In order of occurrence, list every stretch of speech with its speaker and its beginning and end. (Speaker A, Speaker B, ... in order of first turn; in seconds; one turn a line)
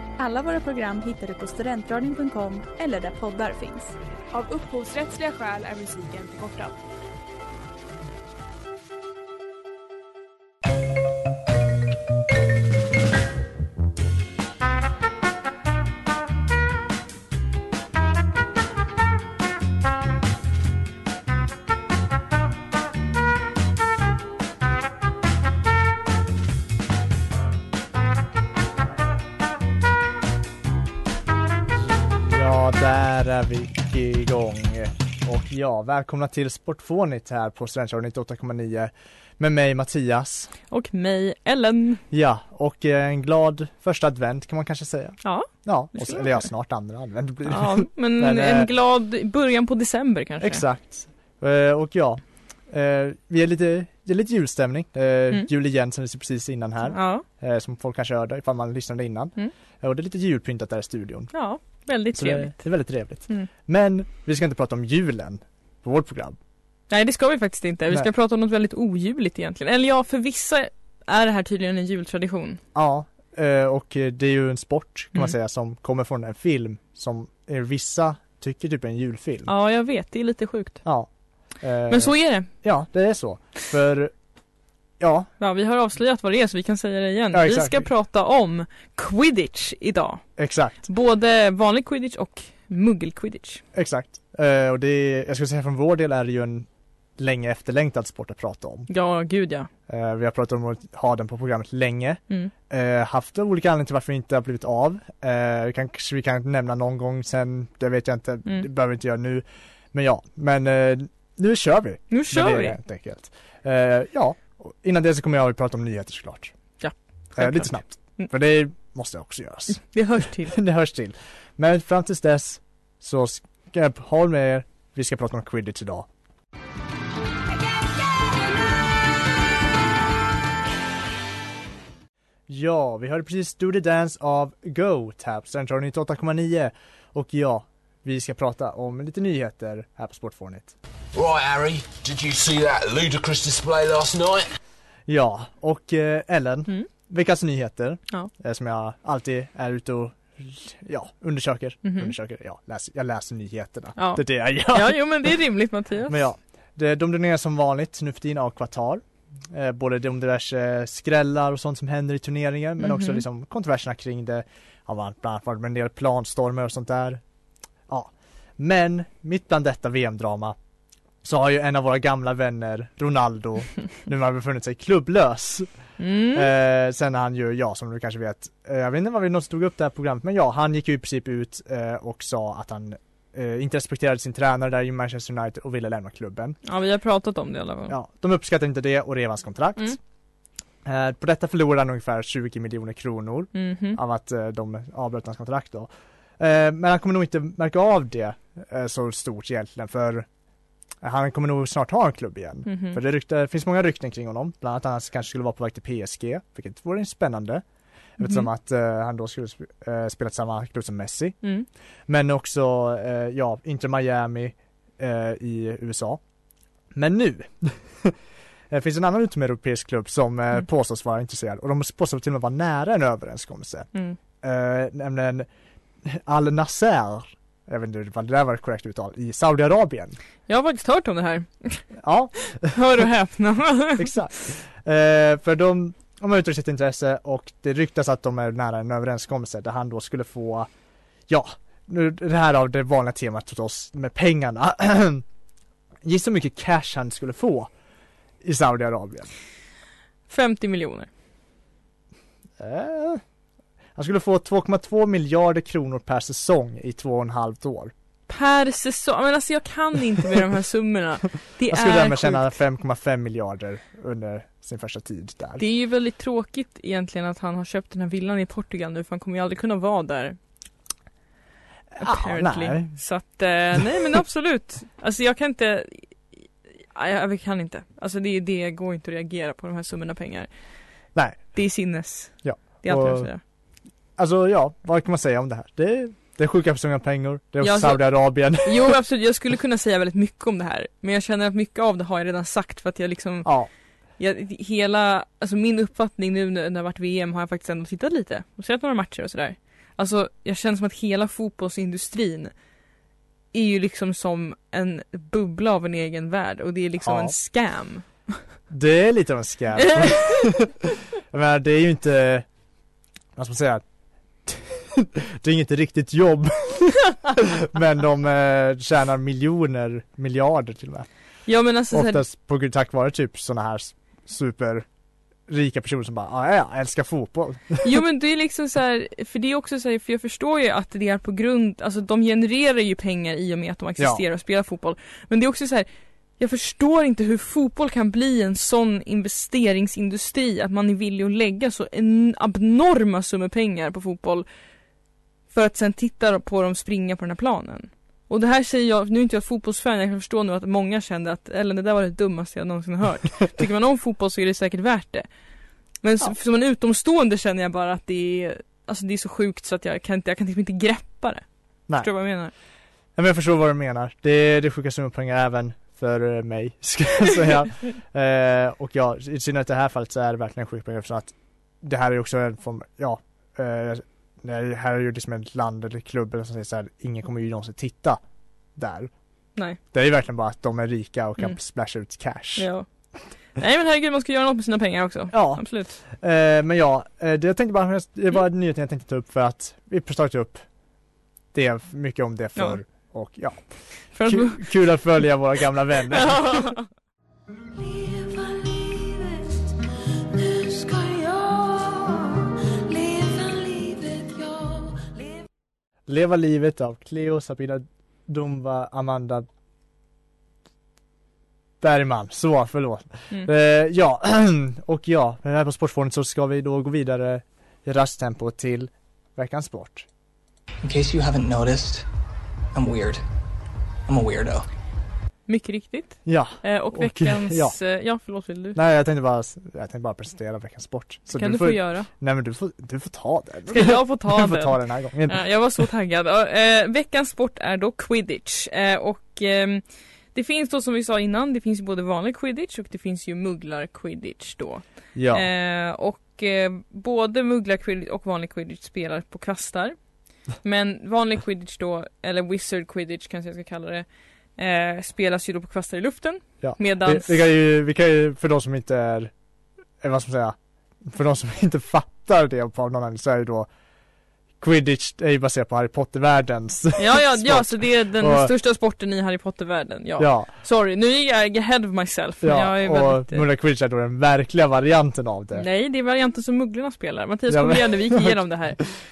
Speaker A: 0.2-3.9
Speaker B: 4.3-6.8
Speaker C: 32.0-40.5
Speaker D: 40.7-42.0
Speaker C: 42.1-48.7
Speaker D: 45.2-46.4
Speaker D: 47.5-50.6
Speaker C: 50.4-61.3
Speaker D: 56.9-57.2
Speaker D: 61.3-62.6
Speaker C: 62.1-66.4
Speaker D: 66.9-72.6
Speaker C: 72.7-79.5
Speaker D: 79.5-80.8
Speaker C: 80.8-81.1
Speaker C: 81.6-84.1
Speaker D: 81.9-82.5
Speaker C: 85.0-85.3
Speaker D: 85.4-90.2
Speaker C: 87.3-87.9
Speaker C: 90.4-90.8
Speaker D: 90.8-93.6
Speaker C: 93.7-98.9
Speaker D: 98.9-99.7
Speaker C: 99.9-116.5
Speaker D: 112.1-112.8
Speaker D: 116.8-118.3
Speaker C: 117.3-119.8
Speaker D: 119.7-120.5
Speaker C: 120.4-126.1
Speaker C: 132.5-140.7
Speaker E: 141.1-144.5
Speaker C: 145.1-155.1
Speaker D: 151.8-152.1
Speaker D: 154.0-156.2
Speaker C: 156.1-167.2
Speaker D: 162.8-163.2
Speaker C: 167.9-170.6
Speaker C: 171.2-175.7
Speaker D: 176.0-176.5
Speaker C: 176.3-186.6
Speaker D: 186.6-187.9
Speaker C: 187.9-190.0
Speaker C: 190.8-200.3
Speaker D: 193.5-194.0
Speaker C: 201.0-207.6
Speaker D: 202.7-203.0
Speaker C: 208.2-211.4
Speaker D: 208.2-208.5
Speaker C: 212.1-216.2
Speaker C: 216.9-218.2
Speaker C: 218.7-223.9
Speaker C: 224.4-225.5
Speaker C: 226.0-230.2
Speaker D: 230.5-231.8
Speaker C: 232.0-233.0
Speaker D: 232.6-234.1
Speaker C: 234.0-240.7
Speaker C: 241.3-245.2
Speaker C: 246.0-247.7
Speaker C: 248.4-249.3
Speaker D: 250.3-251.1
Speaker C: 252.6-253.2
Speaker C: 253.9-257.9
Speaker D: 258.3-262.6
Speaker C: 261.7-265.6
Speaker D: 265.6-270.4
Speaker C: 272.0-272.9
Speaker D: 272.0-276.1
Speaker D: 276.9-280.5
Speaker C: 281.1-281.5
Speaker D: 281.5-283.4
Speaker C: 282.4-283.3
Speaker C: 284.2-288.9
Speaker D: 287.6-293.5
Speaker C: 293.4-293.7
Speaker D: 294.2-302.5
Speaker D: 303.5-308.1
Speaker C: 307.0-307.3
Speaker C: 308.7-312.4
Speaker D: 309.8-310.4
Speaker C: 313.4-313.8
Speaker C: 314.4-321.1
Speaker D: 321.5-322.2
Speaker C: 321.9-324.9
Speaker C: 325.5-327.9
Speaker D: 327.8-335.9
Speaker D: 336.4-344.4
Speaker D: 345.5-355.3
Speaker D: 356.0-361.4
Speaker D: 362.0-362.5
Speaker C: 363.1-378.2
Speaker C: 378.8-379.1
Speaker C: 379.9-382.7
Speaker D: 382.6-382.8
Speaker D: 383.6-386.0
Speaker C: 385.3-390.6
Speaker C: 391.5-393.7
Speaker D: 394.1-394.6
Speaker C: 394.2-396.7
Speaker D: 396.1-396.8
Speaker D: 400.4-401.9
Speaker F: 400.6-402.2
Speaker D: 402.9-405.0
Speaker F: 403.4-403.9
Speaker C: 406.1-409.5
Speaker C: 411.8-420.1
Speaker G: 420.8-422.0
Speaker G: 422.7-423.2
Speaker G: 424.1-424.6
Speaker D: 425.5-428.8
Speaker C: 426.2-427.8
Speaker C: 428.7-435.4
Speaker D: 431.3-432.1
Speaker D: 433.7-449.9
Speaker C: 445.1-445.4
Speaker D: 450.6-454.1
Speaker D: 454.6-457.4
Speaker C: 456.6-459.3
Speaker C: 460.0-463.7
Speaker C: 464.6-468.5
Speaker D: 467.0-473.4
Speaker C: 470.2-470.5
Speaker C: 472.4-475.6
Speaker D: 475.5-478.9
Speaker C: 477.5-478.3